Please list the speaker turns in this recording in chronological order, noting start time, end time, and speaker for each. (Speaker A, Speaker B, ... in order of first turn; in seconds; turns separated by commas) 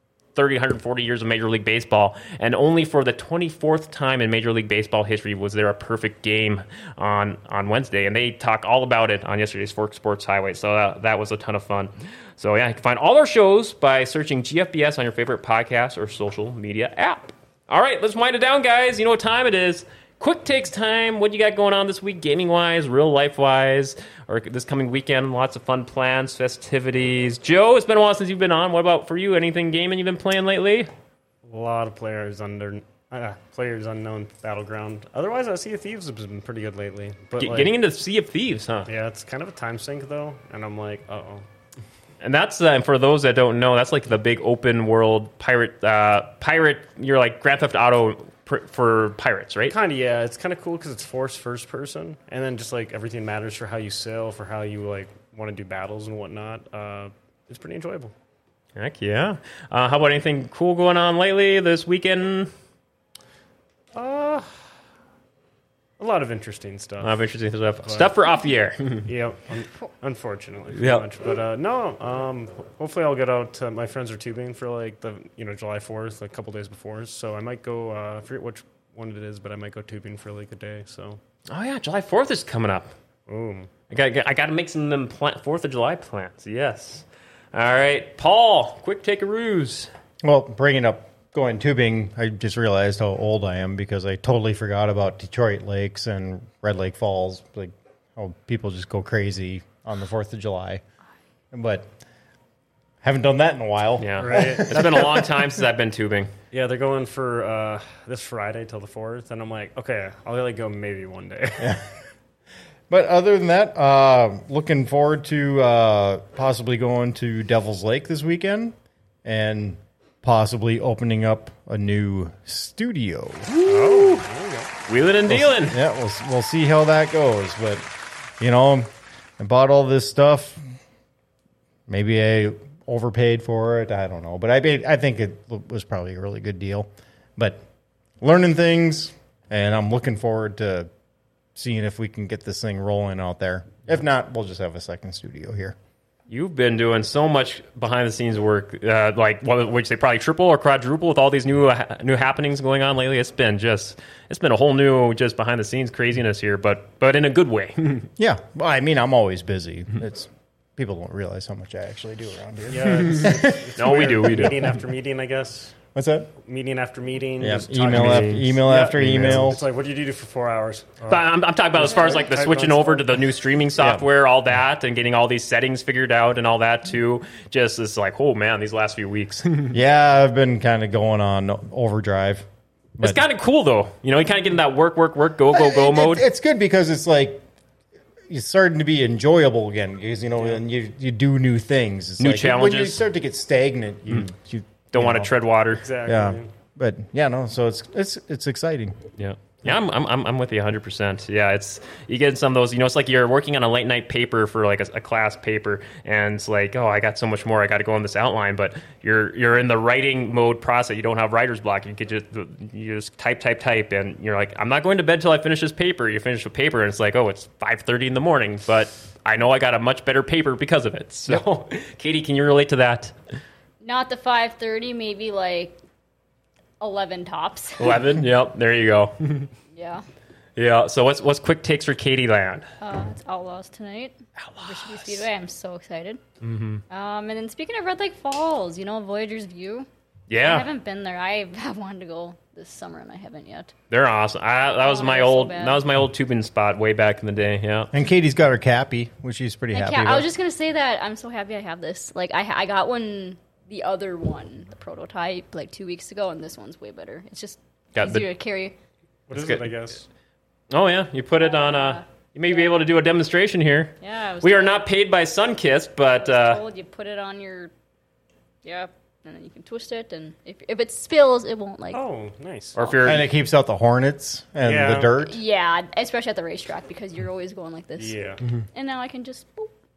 Speaker A: 0.3-30.9, Speaker B: 31.4-37.7, Speaker A: 37.4-38.9, Speaker B: 38.9-41.4, Speaker A: 42.2-49.7, Speaker B: 49.7-58.1, Speaker A: 58.8-62.5, Speaker B: 63.9-64.6, Speaker B: 66.0-67.1, Speaker A: 67.0-69.1, Speaker B: 67.8-68.1, Speaker B: 69.0-81.2, Speaker A: 70.7-71.0, Speaker A: 81.5-82.9, Speaker B: 83.3-83.7, Speaker A: 83.9-89.9, Speaker C: 90.2-100.8, Speaker C: 101.5-101.9, Speaker C: 103.0-105.4, Speaker A: 104.0-106.3, Speaker B: 104.2-105.2, Speaker B: 106.5-111.8, Speaker C: 111.6-111.8, Speaker C: 112.9-123.5, Speaker A: 123.5-124.2, Speaker B: 123.6-124.7, Speaker A: 124.8-125.8, Speaker C: 125.3-127.8, Speaker C: 128.4-130.6, Speaker C: 131.9-137.6, Speaker C: 138.2-140.9, Speaker C: 141.6-145.8, Speaker A: 146.3-158.1, Speaker C: 158.2-163.7, Speaker B: 162.7-165.8, Speaker A: 163.8-164.6, Speaker C: 164.2-164.5, Speaker C: 165.9-166.3, Speaker B: 166.4-173.2, Speaker C: 167.4-169.6, Speaker A: 167.9-168.5, Speaker A: 171.1-179.7, Speaker C: 173.8-174.0, Speaker C: 179.7-182.5, Speaker C: 183.0-183.2, Speaker A: 183.0-186.2, Speaker C: 185.5-187.4, Speaker C: 188.3-195.3, Speaker A: 192.2-193.0, Speaker A: 194.9-195.9, Speaker B: 195.8-196.5, Speaker C: 196.0-199.0, Speaker A: 199.2-223.1, Speaker D: 223.8-225.8, Speaker D: 226.8-228.0, Speaker A: 227.8-229.5, Speaker D: 229.7-230.0, Speaker A: 230.6-232.7, Speaker D: 232.8-236.2, Speaker A: 234.4-235.2, Speaker A: 236.4-236.8, Speaker D: 236.9-243.7, Speaker A: 240.3-240.7, Speaker A: 243.9-247.9, Speaker D: 244.8-245.8, Speaker C: 247.9-250.3, Speaker D: 249.7-258.7, Speaker A: 257.9-258.2, Speaker B: 259.3-260.0, Speaker A: 259.3-259.8, Speaker A: 260.7-266.6, Speaker D: 261.4-262.8, Speaker D: 264.0-264.9, Speaker D: 266.2-267.7, Speaker D: 268.6-272.0, Speaker B: 271.9-272.8, Speaker A: 272.8-273.3, Speaker C: 273.0-275.4, Speaker B: 274.6-275.1, Speaker D: 275.2-278.2, Speaker B: 278.0-278.4, Speaker D: 278.7-279.7